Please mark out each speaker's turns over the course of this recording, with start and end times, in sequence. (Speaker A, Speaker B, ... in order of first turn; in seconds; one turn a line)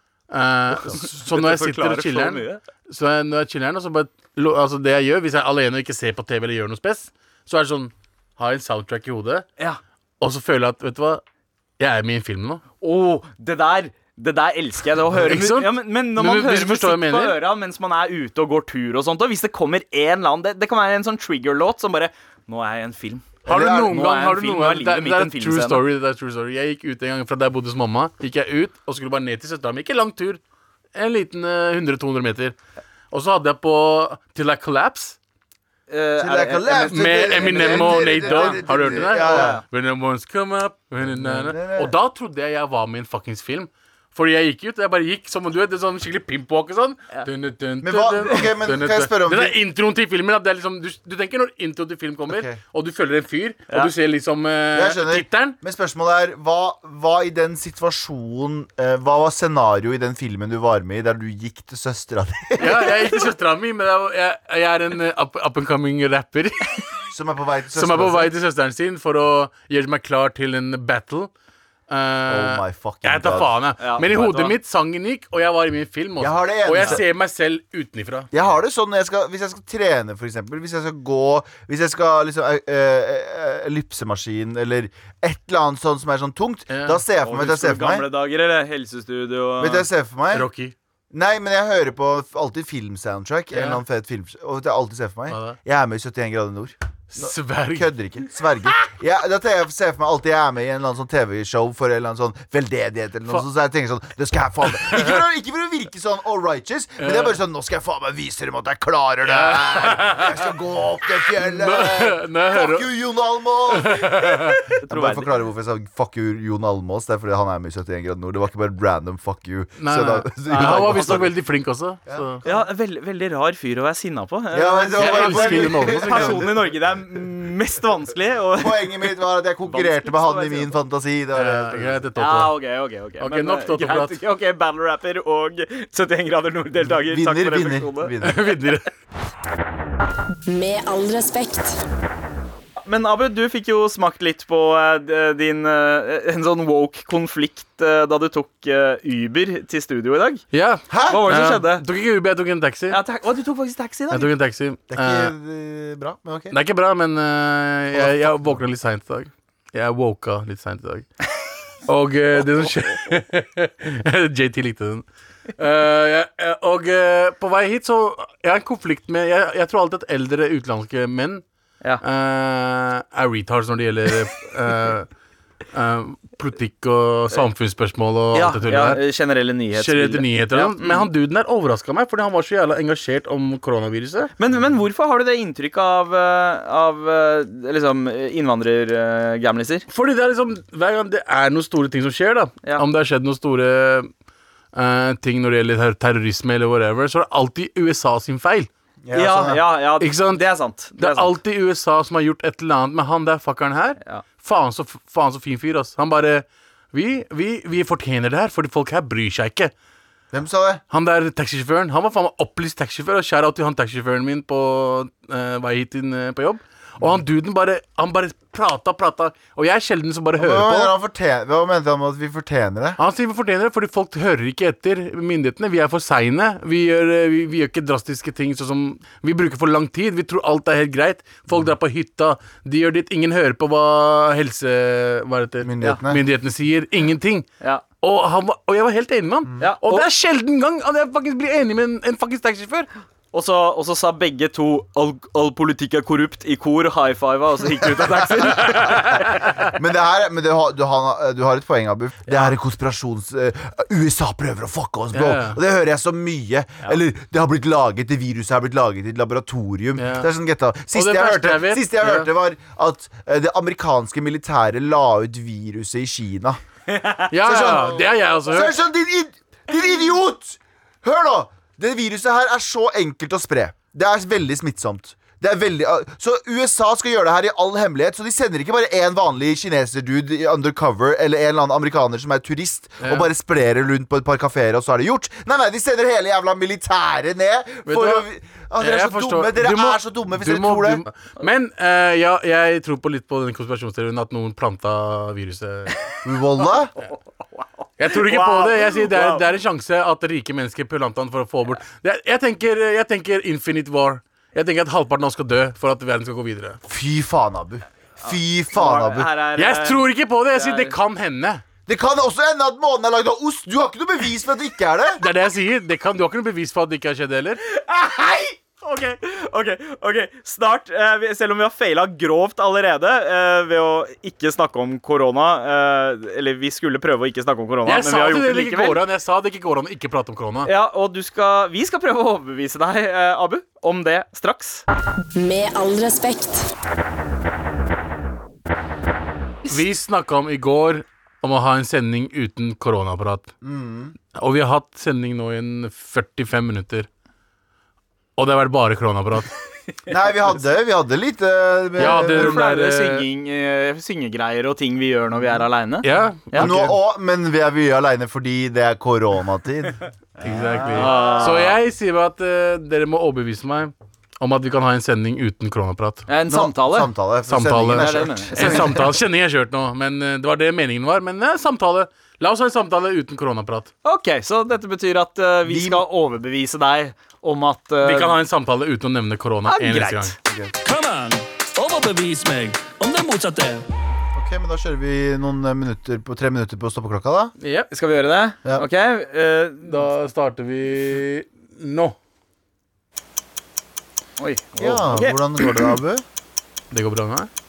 Speaker A: 0.3-9.5
Speaker B: 0.9-2.6
Speaker A: 10.2-11.2
Speaker A: 11.8-12.6
Speaker B: 12.8-25.8
Speaker A: 15.1-17.4
Speaker A: 23.4-30.4
Speaker C: 23.5-24.0
Speaker A: 30.9-32.5
Speaker A: 33.1-35.2
Speaker B: 35.9-39.6
Speaker C: 36.2-39.6
Speaker A: 36.9-55.6
Speaker C: 41.0-41.9
Speaker C: 47.8-49.6
Speaker C: 52.3-52.6
Speaker C: 54.7-63.0
Speaker A: 62.6-67.0
Speaker C: 67.1-68.3
Speaker A: 67.7-71.3
Speaker A: 71.9-78.3
Speaker C: 72.3-73.5
Speaker B: 73.8-74.6
Speaker C: 76.2-77.0
Speaker C: 78.3-88.1
Speaker A: 86.7-87.0
Speaker B: 87.2-89.9
Speaker C: 89.6-90.5
Speaker A: 90.3-90.8
Speaker C: 91.1-121.3
Speaker A: 93.5-93.8
Speaker A: 95.3-95.6
Speaker A: 97.1-97.9
Speaker A: 104.7-105.2
Speaker A: 107.0-107.3
Speaker A: 109.2-110.5
Speaker A: 111.4-112.9
Speaker A: 113.7-114.6
Speaker B: 114.7-115.3
Speaker A: 119.8-122.4
Speaker B: 120.5-121.3
Speaker C: 122.1-122.6
Speaker B: 122.5-129.1
Speaker C: 124.5-126.5
Speaker A: 125.0-126.5
Speaker C: 128.6-132.0
Speaker B: 129.7-130.7
Speaker A: 131.3-132.6
Speaker B: 132.2-138.2
Speaker A: 133.2-134.2
Speaker C: 136.8-138.5
Speaker A: 138.2-138.9
Speaker D: 140.5-141.8
Speaker B: 142.8-150.4
Speaker A: 150.5-153.0
Speaker C: 150.9-151.2
Speaker B: 151.1-151.8
Speaker B: 152.9-154.3
Speaker A: 154.1-155.3
Speaker C: 154.9-156.6
Speaker A: 156.5-161.1
Speaker C: 157.9-158.6
Speaker A: 161.9-165.1
Speaker A: 165.6-171.4
Speaker A: 172.0-175.1
Speaker A: 175.7-179.0
Speaker B: 178.3-181.1
Speaker A: 179.8-184.3
Speaker B: 184.4-189.9
Speaker A: 189.9-194.1
Speaker A: 194.7-198.7
Speaker C: 199.1-199.6
Speaker B: 199.1-201.4
Speaker A: 200.0-200.4
Speaker A: 201.0-209.7
Speaker C: 210.3-210.8
Speaker A: 210.9-220.9
Speaker C: 220.4-223.0
Speaker A: 223.0-237.5
Speaker C: 235.6-236.2
Speaker A: 238.0-242.9
Speaker B: 239.6-240.1
Speaker B: 243.3-249.3
Speaker C: 247.9-266.6
Speaker A: 248.8-249.6
Speaker A: 255.1-255.6
Speaker A: 260.0-260.3
Speaker A: 260.9-262.3
Speaker B: 266.9-267.3
Speaker A: 267.3-268.8
Speaker C: 267.4-291.0
Speaker A: 283.0-283.3
Speaker A: 287.9-288.3
Speaker A: 288.8-296.1
Speaker C: 296.2-296.9
Speaker B: 297.6-299.4
Speaker A: 298.0-306.8
Speaker C: 306.9-309.3
Speaker B: 308.2-310.9
Speaker A: 309.6-311.6
Speaker C: 311.9-315.2
Speaker A: 315.2-317.6
Speaker B: 317.7-329.0
Speaker A: 327.9-330.7
Speaker B: 330.6-334.8
Speaker D: 335.4-336.7
Speaker A: 339.7-343.5
Speaker C: 343.6-344.1
Speaker A: 344.3-347.1
Speaker A: 348.4-349.5
Speaker C: 350.1-352.6
Speaker A: 352.0-353.3
Speaker B: 352.0-356.8
Speaker A: 356.0-357.0
Speaker C: 356.6-361.6
Speaker A: 360.4-366.3
Speaker B: 360.9-361.8
Speaker B: 366.3-367.1
Speaker C: 366.5-369.1
Speaker A: 367.5-373.9
Speaker B: 368.0-369.0
Speaker B: 374.1-378.4
Speaker C: 375.7-376.0
Speaker A: 378.0-380.3
Speaker B: 379.7-380.4
Speaker C: 380.5-380.7
Speaker E: 380.9-383.8
Speaker C: 384.4-387.5
Speaker A: 387.6-387.9
Speaker B: 387.9-390.1
Speaker A: 389.8-392.1
Speaker B: 394.4-395.9
Speaker C: 394.8-396.2
Speaker A: 396.9-397.5